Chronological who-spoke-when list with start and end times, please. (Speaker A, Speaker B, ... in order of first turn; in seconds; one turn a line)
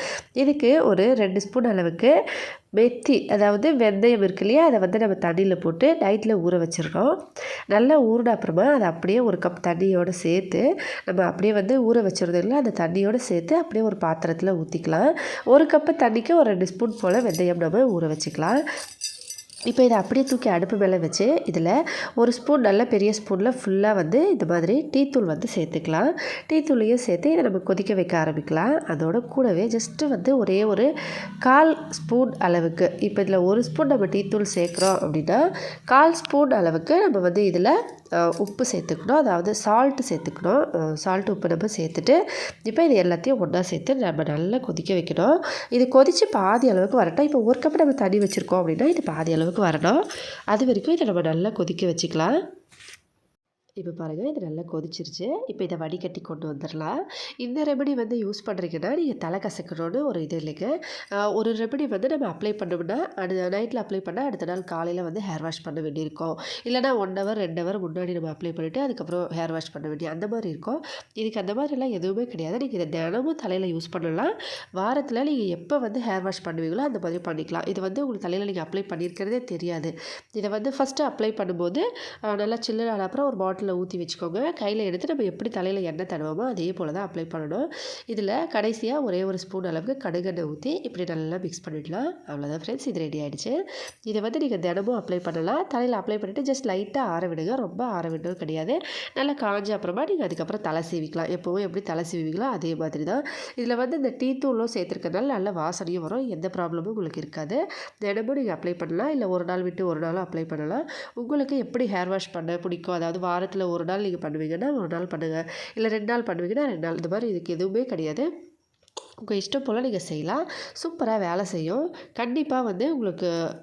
Speaker A: 0.4-2.1
Speaker A: 2.8-7.1
Speaker A: 7.7-18.6
Speaker A: 19.7-30.9
Speaker A: 31.4-52.3
Speaker A: 53.8-60.7
Speaker A: 61.3-118.3
Speaker A: 119.2-123.3